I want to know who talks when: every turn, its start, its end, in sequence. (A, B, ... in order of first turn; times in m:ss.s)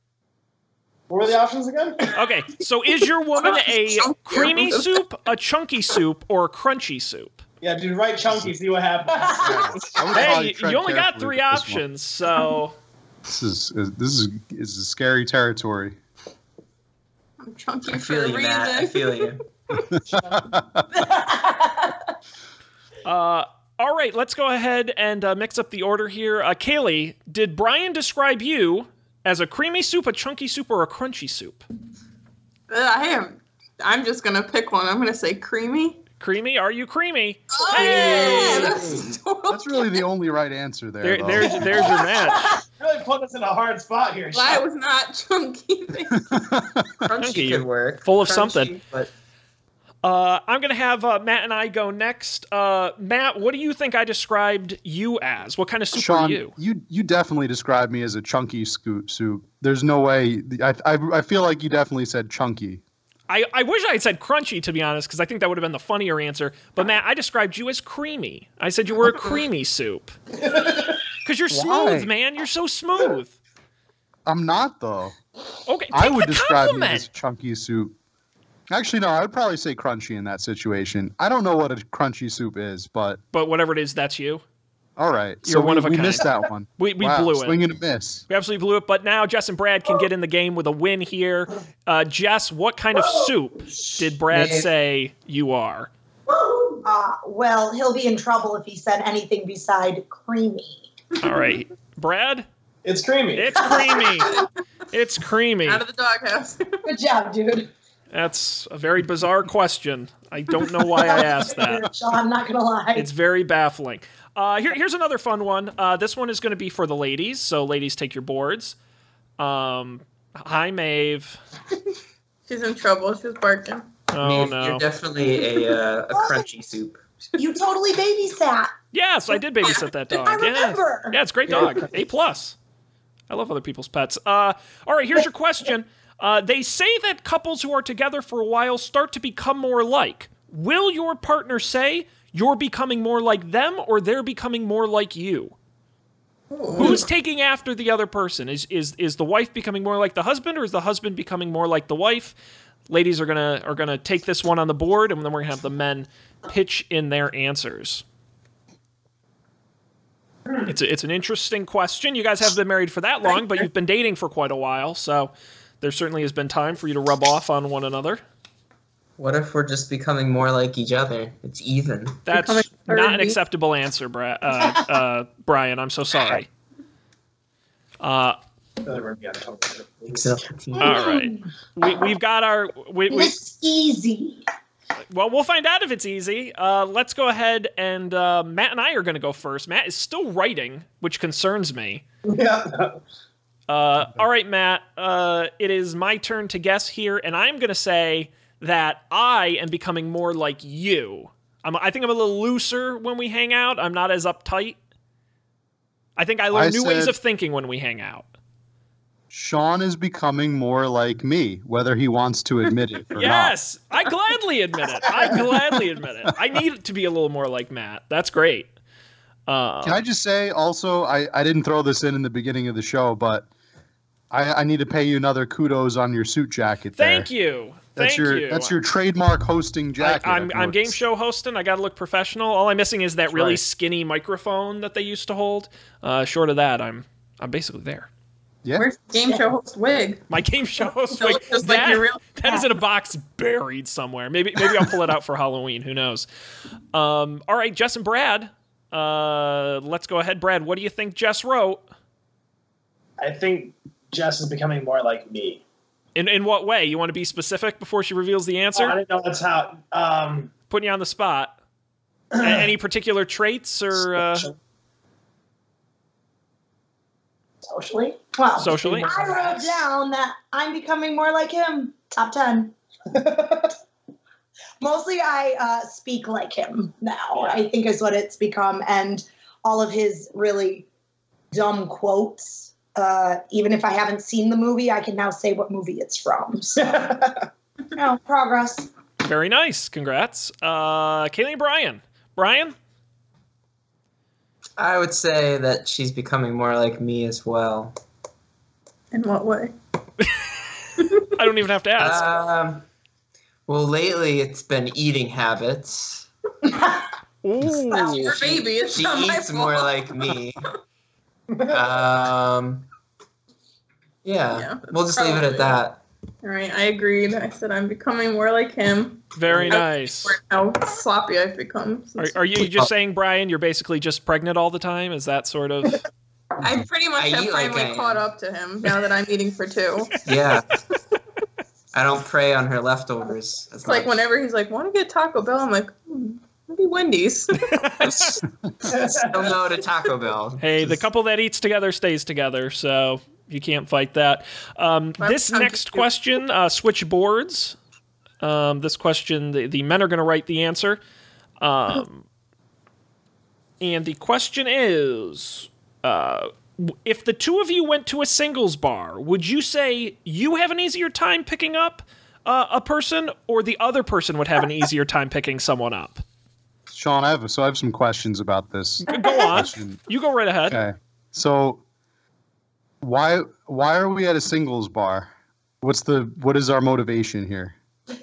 0:01.1-0:02.1 A
0:02.1-0:07.4 B
0:03.4-0:05.0 C
0:07.6-0:10.0 A
0:09.4-0:11.8 D
0:10.1-0:12.8 B
0:13.3-0:16.0 D
0:17.4-0:20.1 C
0:17.9-0:19.4 E
0:20.3-0:20.8 D
0:20.9-0:22.0 F
0:23.0-0:31.6 B
0:32.7-0:36.0 C
0:36.2-0:38.9 B
0:37.5-0:40.0 C
0:38.0-0:42.0 D
0:41.0-0:42.6 B
0:42.8-0:44.6 A
0:44.3-0:46.4 C
0:46.3-0:46.8 D
0:46.9-0:49.1 E
0:47.2-0:48.8 B
0:50.0-0:56.5 B
0:55.9-1:02.8 D
1:03.3-1:10.2 B
1:10.4-1:10.8 A
1:11.2-1:13.4 B
1:11.5-1:12.1 D
1:14.2-1:15.2 D
1:15.6-1:17.1 B
1:15.9-1:17.9 D
1:18.7-1:23.2 D
1:23.3-1:24.4 B
1:25.0-1:28.2 D
1:25.4-1:27.6 B
1:28.3-1:35.9 B
1:34.3-1:34.6 E
1:36.8-1:40.8 F
1:41.2-1:42.5 B
1:42.8-1:43.7 A
1:43.3-1:45.8 B
1:45.6-1:46.8 C
1:46.8-1:47.7 F
1:48.1-1:51.9 B
1:51.0-1:53.1 F
1:52.9-1:58.8 B
1:59.4-2:01.4 B
2:02.5-2:03.9 C
2:04.1-2:04.8 B
2:04.2-2:07.0 E
2:06.1-2:06.4 F
2:07.4-2:08.7 F
2:08.9-2:12.6 B
2:10.1-2:11.2 F
2:13.3-2:25.5 B
2:26.5-2:27.0 C
2:26.7-2:32.3 B
2:32.9-2:38.0 B
2:40.6-2:48.2 B
2:49.2-2:52.2 E
2:52.3-2:56.5 B
2:52.3-2:53.4 C
2:58.0-2:58.4 B
2:58.8-3:00.4 A
3:00.1-3:01.0 E
3:00.8-3:01.5 F
3:00.8-3:03.4 B
3:03.1-3:04.4 F
3:05.1-3:12.0 B
3:12.2-3:13.0 A
3:13.7-3:24.8 B
3:26.2-3:28.3 B
3:26.5-3:27.2 D
3:29.3-3:33.5 D
3:33.1-3:38.7 B
3:39.5-3:40.0 B
3:39.8-3:43.5 D
3:44.3-3:47.3 D
3:47.0-3:48.7 B
3:48.0-3:51.0 D
3:50.0-3:58.1 B
3:53.3-3:53.6 D
3:58.7-4:00.2 C
4:00.3-4:06.3 B
4:01.1-4:02.7 C
4:06.9-4:11.8 B
4:13.2-4:15.6 A
4:16.2-4:19.0 B
4:18.7-4:20.5 A
4:20.7-4:21.5 B
4:22.3-4:22.7 A
4:22.4-4:24.5 B
4:24.0-4:24.6 A
4:27.6-4:32.7 F
4:28.6-4:29.1 B
4:28.6-4:29.8 A
4:33.3-4:33.5 A
4:34.8-4:40.9 F
4:41.5-4:47.1 F
4:46.8-4:47.4 A
4:47.9-4:48.9 F
4:49.2-4:52.8 B
4:54.8-4:58.0 E
4:59.1-4:59.7 C
5:01.0-5:01.2 C
5:01.4-5:02.2 B
5:02.0-5:02.8 E
5:03.7-5:06.3 E
5:07.4-5:08.4 B
5:07.8-5:10.0 C
5:08.2-5:10.7 E
5:11.6-5:12.9 E
5:14.2-5:16.0 E
5:14.5-5:15.8 C
5:16.4-5:22.4 C
5:19.3-5:20.3 B
5:22.2-5:26.0 B
5:22.6-5:22.9 E
5:26.6-5:30.2 C
5:27.2-5:28.2 E
5:30.2-5:30.7 E
5:31.9-5:34.2 E
5:33.8-5:38.2 C
5:37.6-5:38.4 B
5:38.9-5:40.6 E
5:38.9-5:39.5 A
5:40.6-5:47.8 B
5:45.2-5:46.1 C
5:48.4-5:51.0 B
5:51.6-5:52.2 B
5:53.8-6:06.2 B
6:06.9-6:10.0 D
6:09.0-6:10.8 B
6:10.7-6:11.8 D
6:13.0-6:15.3 D
6:15.8-6:17.7 D